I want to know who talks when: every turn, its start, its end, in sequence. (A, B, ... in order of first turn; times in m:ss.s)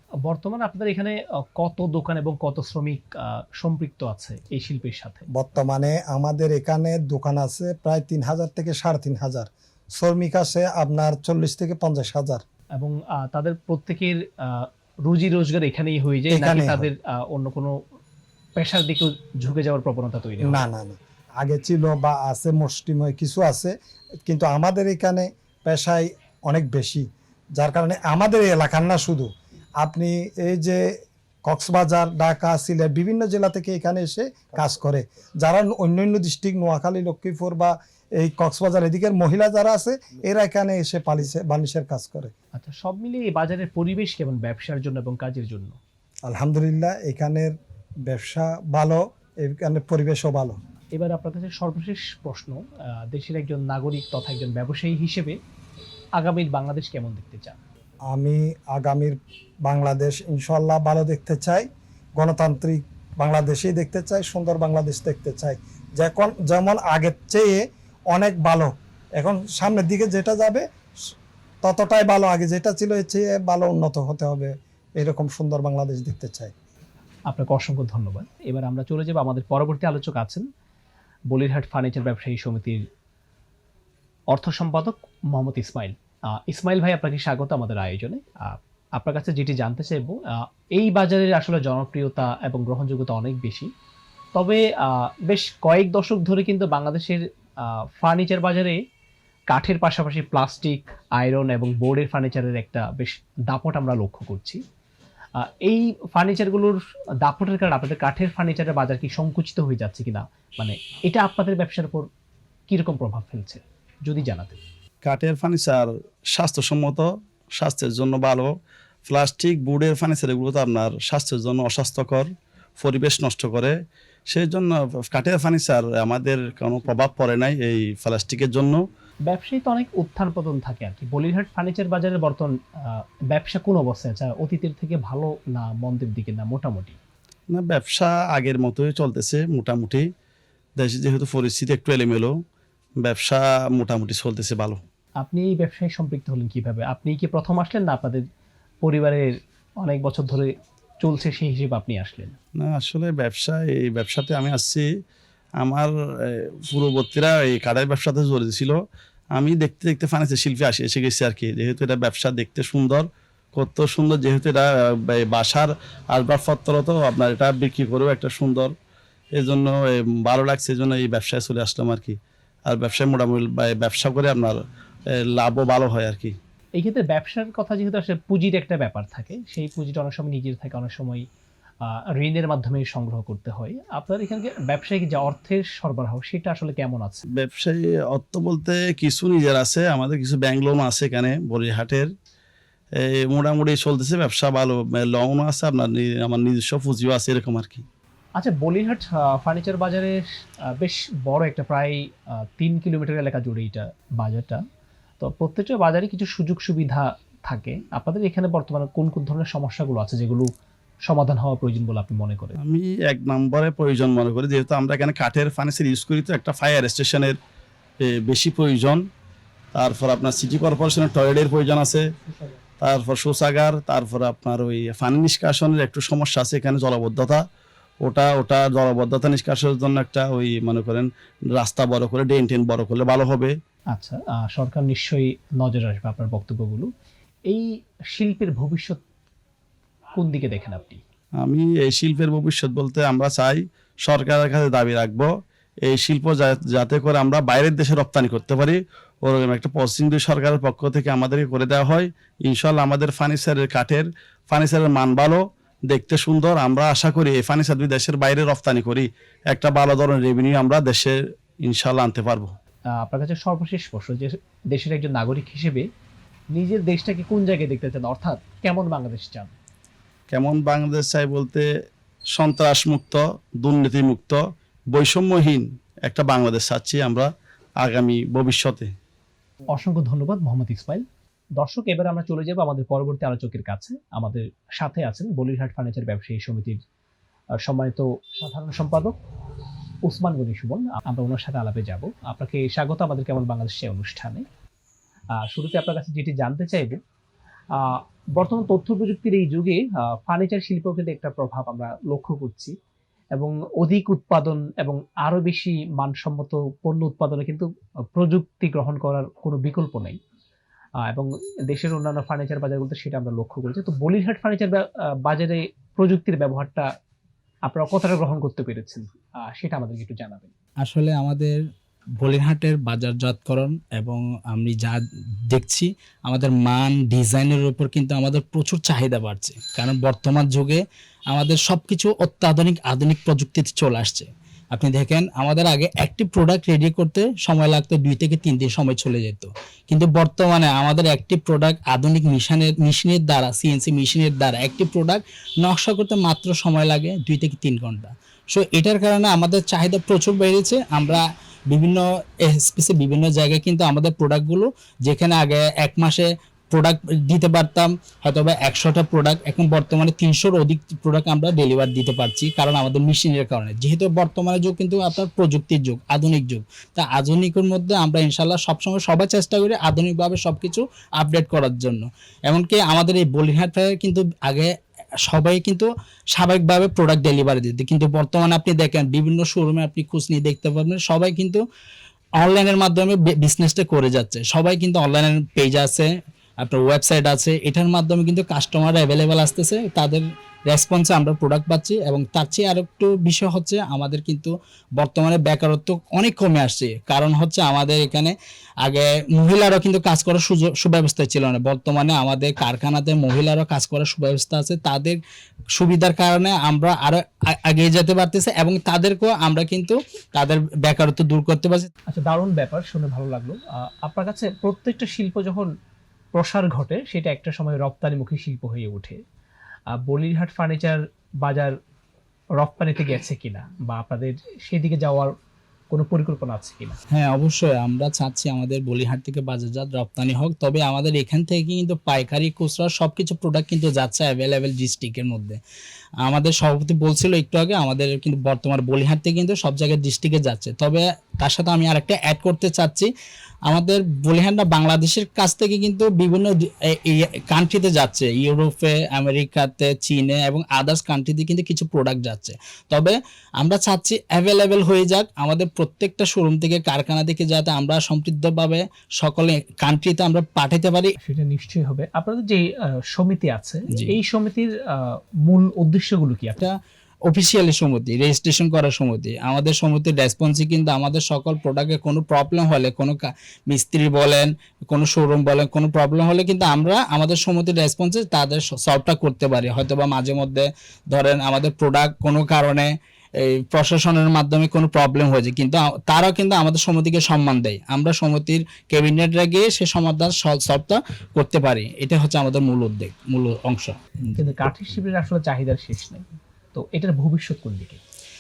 0:00.2-0:05.3 A
0:05.3-0:12.4 B
0:12.8-0:17.8 A
0:16.3-0:16.9 B
0:18.6-0:20.6 A
0:20.4-0:42.3 B
0:42.6-0:45.8 A
0:46.3-0:50.6 B
0:51.0-0:55.4 A
0:56.2-0:57.6 A
0:58.1-1:16.5 B
1:17.3-1:20.5 A
1:21.3-1:22.8 A
1:24.3-1:33.7 A
1:34.4-1:38.8 A
1:39.5-1:44.6 A
1:45.4-1:52.1 A
1:52.7-1:54.6 A
1:55.0-1:58.5 C
1:59.1-2:02.3 C
2:02.8-2:03.7 C
2:04.3-2:08.8 C
2:09.3-2:17.0 A
2:17.5-2:20.1 C
2:20.8-2:22.3 C
2:23.0-2:24.8 C
2:25.2-2:28.2 A
2:28.8-2:32.4 A
2:32.6-2:34.9 C
2:35.6-2:38.8 C
2:39.4-2:48.7 C
2:49.4-2:54.6 C
2:55.2-2:56.4 C
2:56.8-3:01.2 A
3:01.8-3:07.2 A
3:07.4-3:12.1 C
3:13.0-3:17.8 C
3:18.4-3:20.2 A
3:20.8-3:24.6 A
3:25.2-3:30.5 A
3:31.1-3:32.6 A
3:32.6-3:37.4 C
3:38.0-3:39.0 C
3:39.8-3:42.0 C
3:42.8-3:47.4 C
3:48.0-3:53.5 C
3:53.9-3:56.9 A
3:57.5-3:59.0 A
4:00.2-4:01.0 A
4:01.4-4:05.3 C
4:05.9-4:22.5 C
4:22.9-4:25.9 A
4:26.6-4:29.5 A
4:30.3-4:31.7 C
4:32.4-4:34.4 C
4:34.9-4:37.3 C
4:37.8-4:38.9 C
4:39.7-4:41.0 A
4:41.6-4:46.8 A
4:47.6-4:49.2 A
4:50.0-4:54.4 A
4:55.4-4:57.0 A
4:57.8-5:02.8 A
5:03.4-5:10.2 A
5:11.0-5:16.9 A
5:17.7-5:20.5 A
5:20.8-5:21.7 D
5:22.2-6:14.7 D
6:15.3-6:21.6 D
6:22.4-6:26.1 D
6:26.6-6:45.2 D
6:45.8-6:51.9 D
6:52.1-6:55.7 A
6:56.3-6:59.2 A
6:59.9-7:01.8 A
7:02.6-7:05.4 A
7:05.9-7:07.0 A
7:07.1-7:15.6 D
7:16.2-7:23.1 D
7:23.7-7:41.2 D
7:41.2-7:44.7 A
7:45.4-7:46.6 A
7:47.3-8:14.4 D
8:14.4-8:18.0 A